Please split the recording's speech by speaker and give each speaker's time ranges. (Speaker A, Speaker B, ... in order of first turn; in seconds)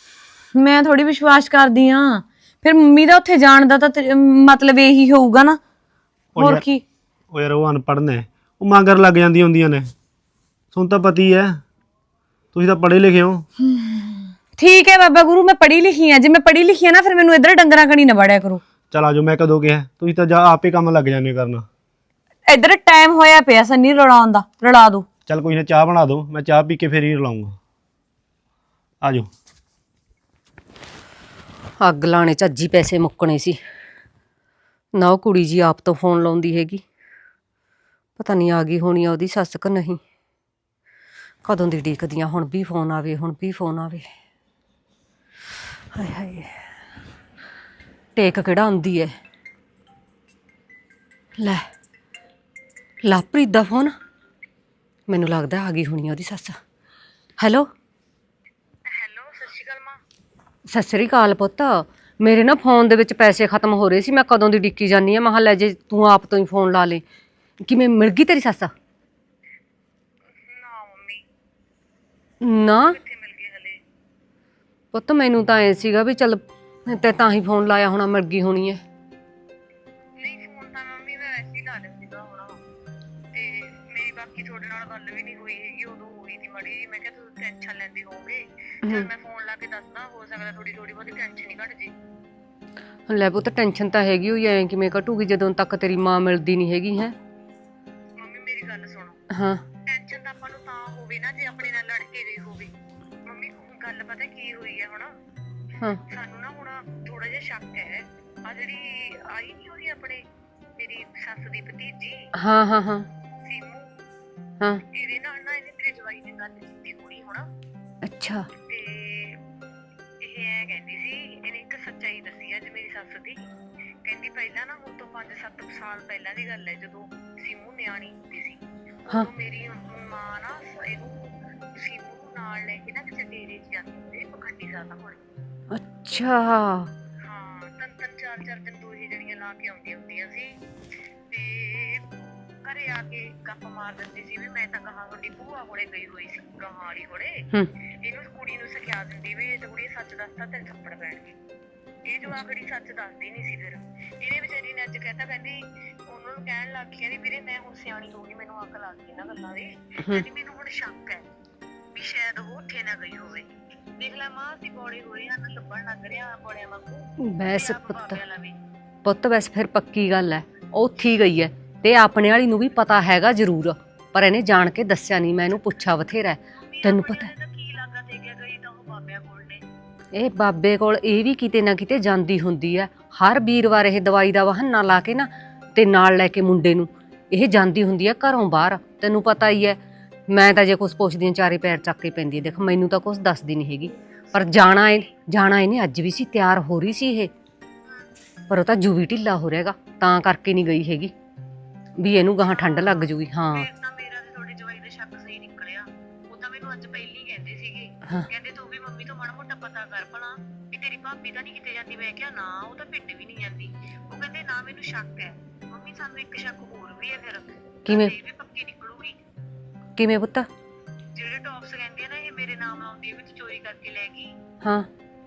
Speaker A: 0.5-5.6, 6.4-6.8, 13.6-18.6, 22.5-25.1
Speaker B: 6.3-6.6, 7.3-9.9, 10.7-11.6, 12.5-13.5, 18.9-21.7, 25.3-27.6, 29.0-29.3
Speaker C: 31.8-33.6, 35.0-36.8, 38.2-40.0, 41.4-44.1, 45.9-46.6, 48.1-49.1, 51.4-51.7, 53.0-53.9, 55.1-56.6, 57.4-57.7, 60.7-67.0, 67.7-68.7, 72.4-73.0, 74.9-78.8, 93.1-97.2, 99.3-99.6, 112.3-113.1, 118.0-118.5, 135.7-136.9, 167.2-168.2, 169.0-177.3, 180.1-189.8, 190.3-197.3, 198.5-201.1, 202.0-203.7, 217.8-218.1, 220.0-220.5, 224.6-224.9
Speaker D: 58.9-60.0, 70.3-71.2, 72.8-73.8, 80.2-82.6, 83.3-91.9, 98.2-99.2, 99.8-102.7, 103.2-105.1, 106.0-110.2, 110.8-112.3, 113.4-113.9, 114.9-117.5, 118.7-119.4, 120.2-123.4, 124.0-135.2, 137.2-140.6, 141.3-142.0, 142.6-147.5, 148.0-151.3, 152.1-161.2, 161.9-168.6, 176.5-179.6, 194.3-195.1, 202.4-219.2, 221.1-224.3